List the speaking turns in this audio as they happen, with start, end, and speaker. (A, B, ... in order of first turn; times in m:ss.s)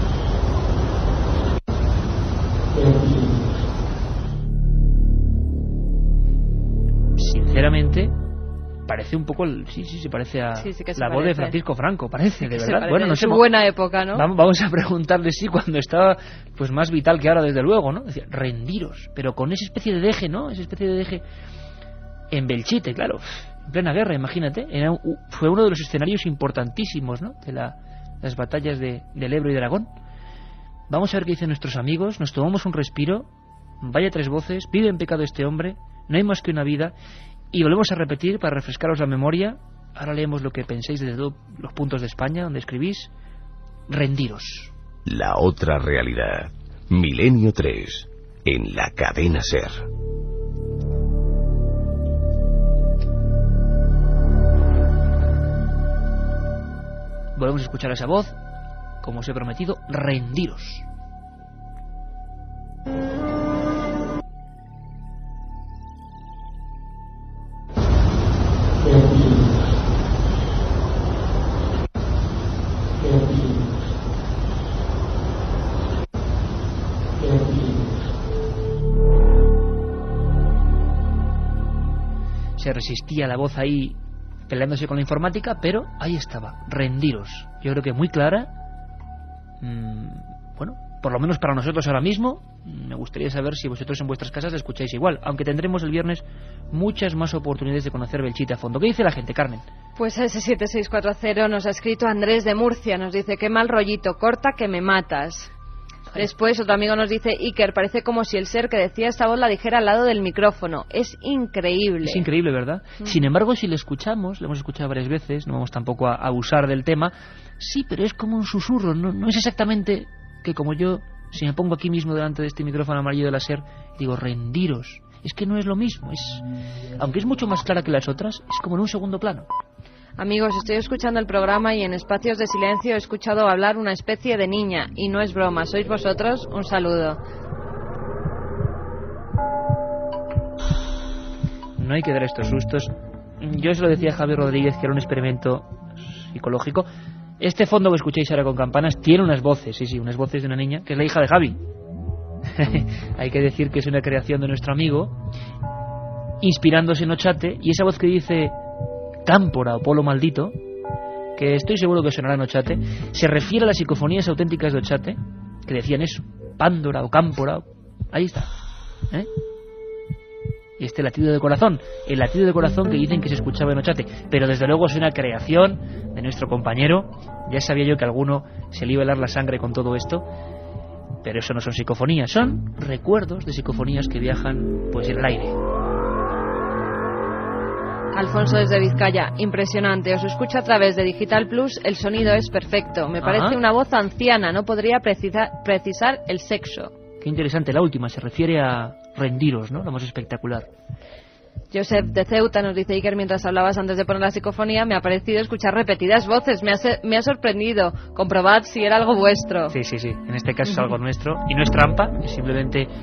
0:07.2-0:08.1 A
0:08.9-0:13.4 A
0:10.6-0:11.6 B
0:12.4-0:14.2 B
0:14.2-0:21.2 A
0:22.3-0:29.9 A
0:30.9-0:33.3 A
0:33.8-0:36.9 A
0:37.5-0:43.1 A
0:43.9-0:44.7 A
0:45.1-0:49.9 C
0:57.4-0:58.4 A
0:59.0-1:00.8 A
1:22.6-1:24.0 A
1:24.5-1:28.5 A
1:29.6-1:39.6 A
1:40.0-1:45.5 B
1:46.2-1:52.3 B
1:52.0-2:06.4 A
2:07.0-2:09.5 A
2:10.2-2:17.2 B
2:21.8-2:25.7 A
2:26.3-2:26.9 A
2:27.4-2:31.6 A
2:32.6-2:35.2 A
2:36.4-2:38.6 A
2:39.3-2:40.6 A
2:41.4-2:48.5 A
2:50.8-3:00.3 A
3:01.2-3:05.6 A
3:08.1-3:16.9 B
3:13.2-3:13.6 A
3:17.2-3:20.7 A
3:21.7-3:29.8 B
3:29.7-3:32.9 A